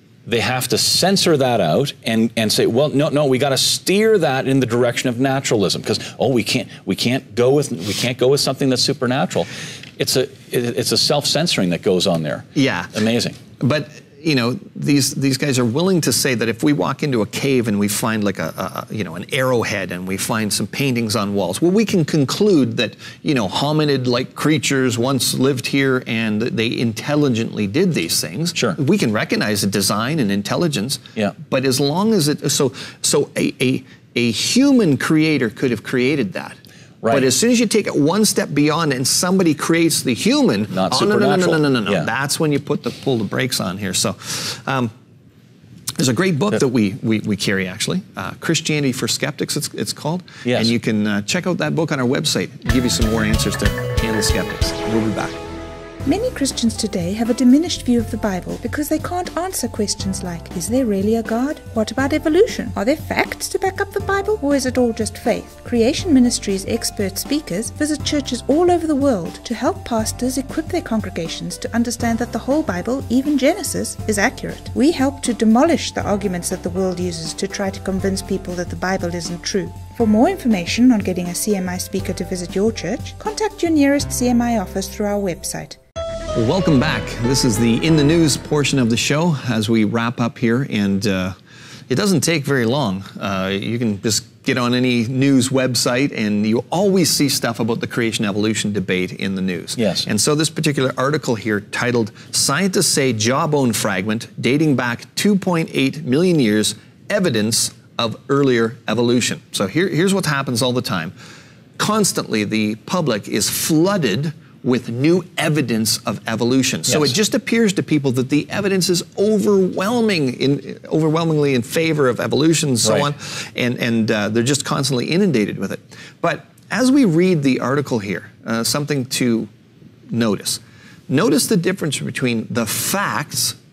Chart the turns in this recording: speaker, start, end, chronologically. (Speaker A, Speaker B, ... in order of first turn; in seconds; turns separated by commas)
Speaker A: 0.3-13.4, Speaker B: 12.6-12.9, Speaker B: 13.6-36.6, Speaker A: 37.0-37.3, Speaker B: 37.1-44.9, Speaker A: 40.7-42.1, Speaker B: 46.0-55.4, Speaker A: 50.5-50.7, Speaker C: 56.1-85.8, Speaker B: 86.3-91.4, Speaker B: 91.9-111.1, Speaker A: 99.8-100.1, Speaker B: 111.8-129.5, Speaker B: 130.1-133.6